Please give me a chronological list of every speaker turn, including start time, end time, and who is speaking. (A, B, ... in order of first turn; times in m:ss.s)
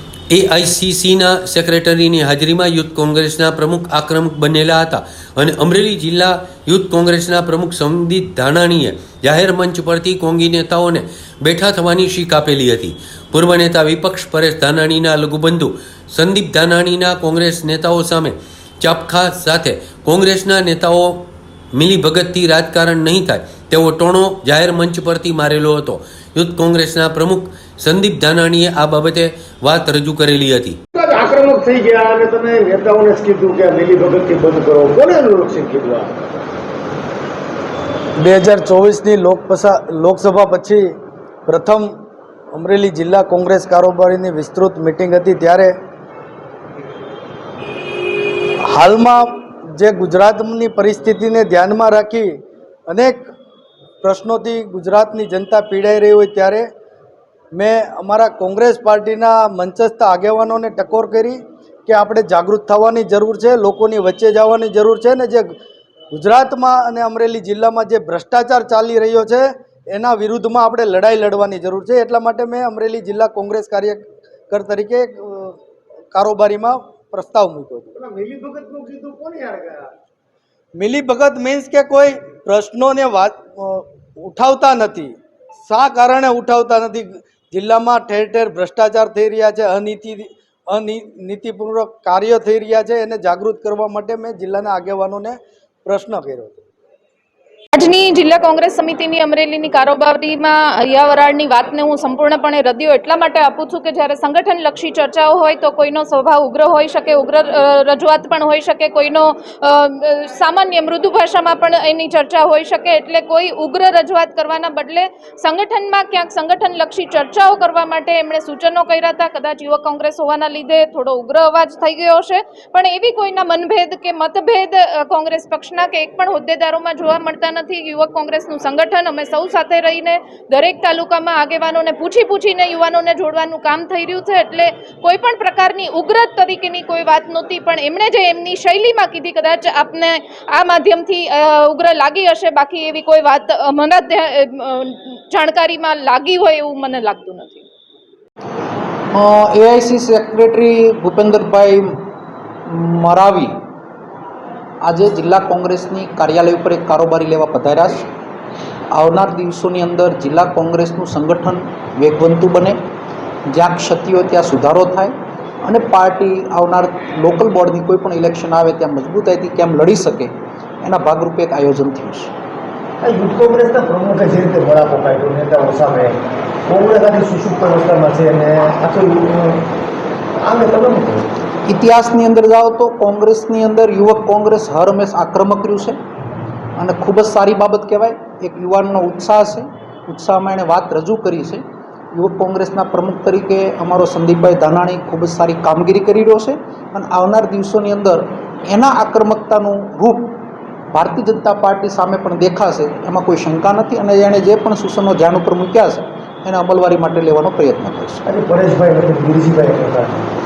0:00.3-0:21.2 A
0:21.7-0:30.8 A
0:30.9-0:36.2 B
0:38.2-0:40.9 C
0:41.5-0:41.9 C
0:42.5-0:45.7 C
0:48.7-0:52.3 C
0:52.9-0:53.2 C
0:54.0-0:56.7 C
0:57.5-1:05.5 C
1:06.1-1:15.6 C
1:16.1-1:17.9 C
1:17.9-1:19.9 B
1:20.8-1:25.1 C
1:25.7-1:36.6 C
1:37.7-2:27.6 D
2:29.1-2:32.0 E
2:32.6-2:33.5 E
2:34.8-2:38.1 E
2:38.9-2:42.8 E
2:43.5-2:45.1 E
2:45.6-2:52.3 E
2:53.0-2:59.7 B
3:00.4-3:01.2 B
3:01.7-3:06.0 E
3:06.8-3:11.6 E
3:12.1-3:20.3 E
3:20.9-3:28.2 E
3:28.2-3:30.3 B